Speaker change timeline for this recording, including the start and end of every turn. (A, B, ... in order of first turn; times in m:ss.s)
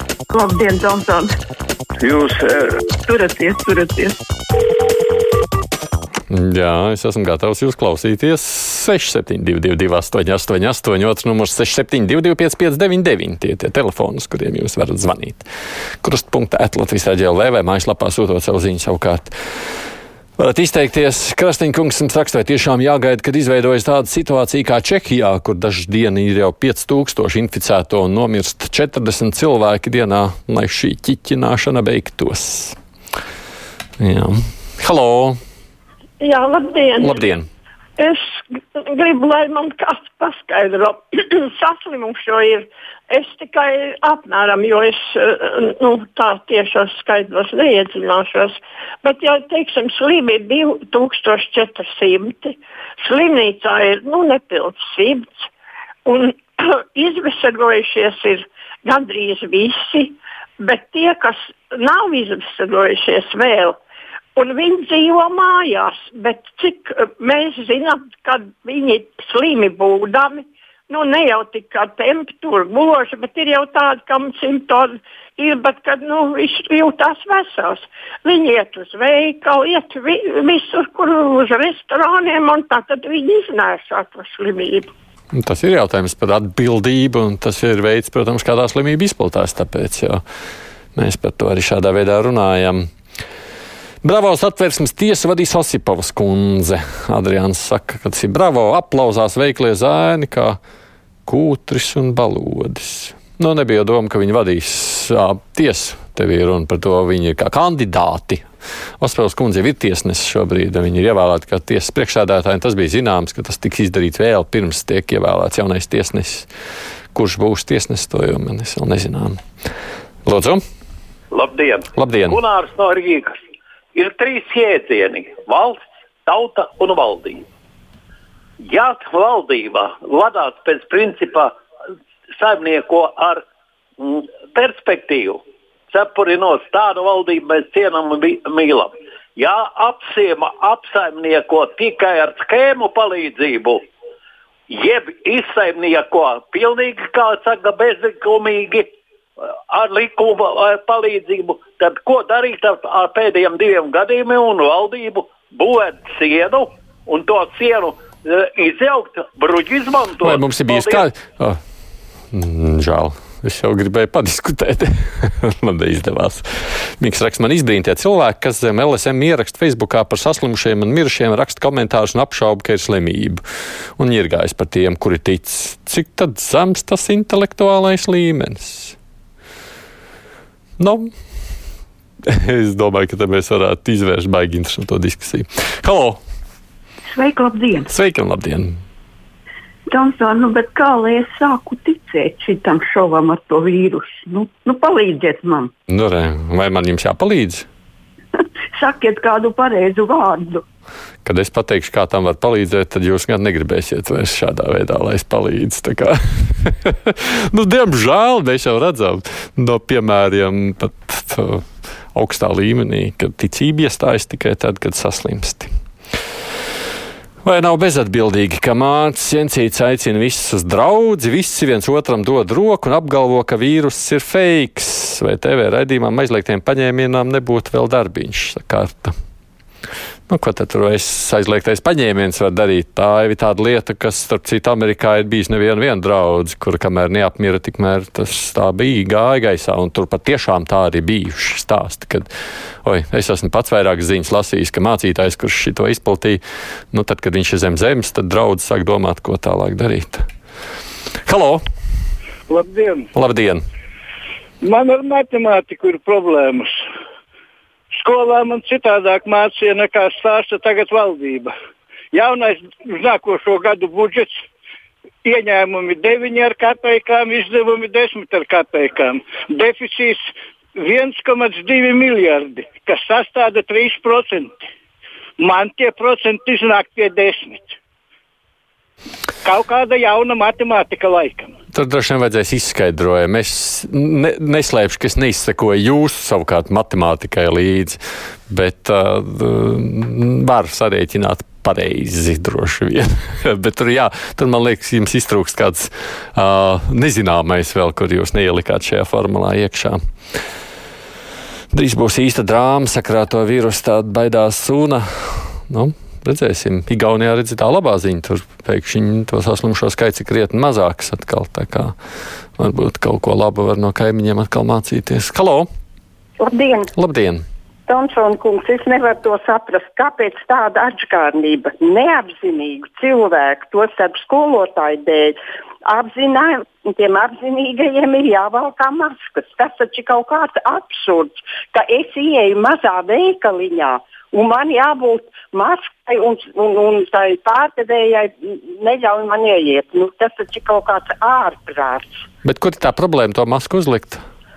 0:00.3-0:01.3 A
0:03.1-0:04.1 A
0:06.3-0:15.4 B
0:16.0-0:19.3 B
0:20.4-0:32.8 B
0:34.0-0:35.4 B
0:36.2-0:37.2 C
0:37.0-0:37.5 B
0:38.0-0:55.5 C
0:56.0-1:03.8 C
1:04.3-1:24.9 C
1:25.3-1:30.2 B
1:31.0-1:32.9 B
1:34.0-1:40.6 B
1:41.2-1:48.4 B
1:49.0-1:56.5 B
1:57.1-1:59.4 B
2:00.2-2:00.6 B
2:01.3-2:03.4 D
2:02.0-2:02.4 B
2:03.9-2:07.4 D
2:08.6-2:11.5 D
2:12.4-2:13.4 D
2:14.0-2:23.8 D
2:24.7-2:28.9 D
2:29.7-2:41.0 D
2:40.2-2:41.6 B
2:42.3-2:53.4 B
2:54.0-2:59.0 B
3:00.8-3:01.1 B
3:02.3-3:06.2 B
3:07.1-3:07.9 A
3:07.9-3:08.8 B
3:09.9-3:15.7 A
3:15.9-3:17.7 B
3:18.7-3:20.6 A
3:21.2-3:35.7 B
3:37.4-3:49.1 B
3:50.3-4:02.3 B
4:02.8-4:10.2 B
4:11.2-4:11.6 B
4:12.7-4:12.9 E
4:13.1-4:13.6 B
4:14.8-4:16.6 E
4:18.0-4:21.4 E
4:22.2-4:24.2 E
4:25.3-4:30.1 E
4:30.9-4:34.4 E
4:35.6-4:37.6 E
4:39.5-4:41.4 E
4:41.7-5:00.0 B
5:01.7-5:11.9 B
5:12.6-5:15.7 B
5:16.4-5:16.9 F
5:17.0-5:17.4 B
5:17.9-5:42.2 F
5:42.4-5:44.2 B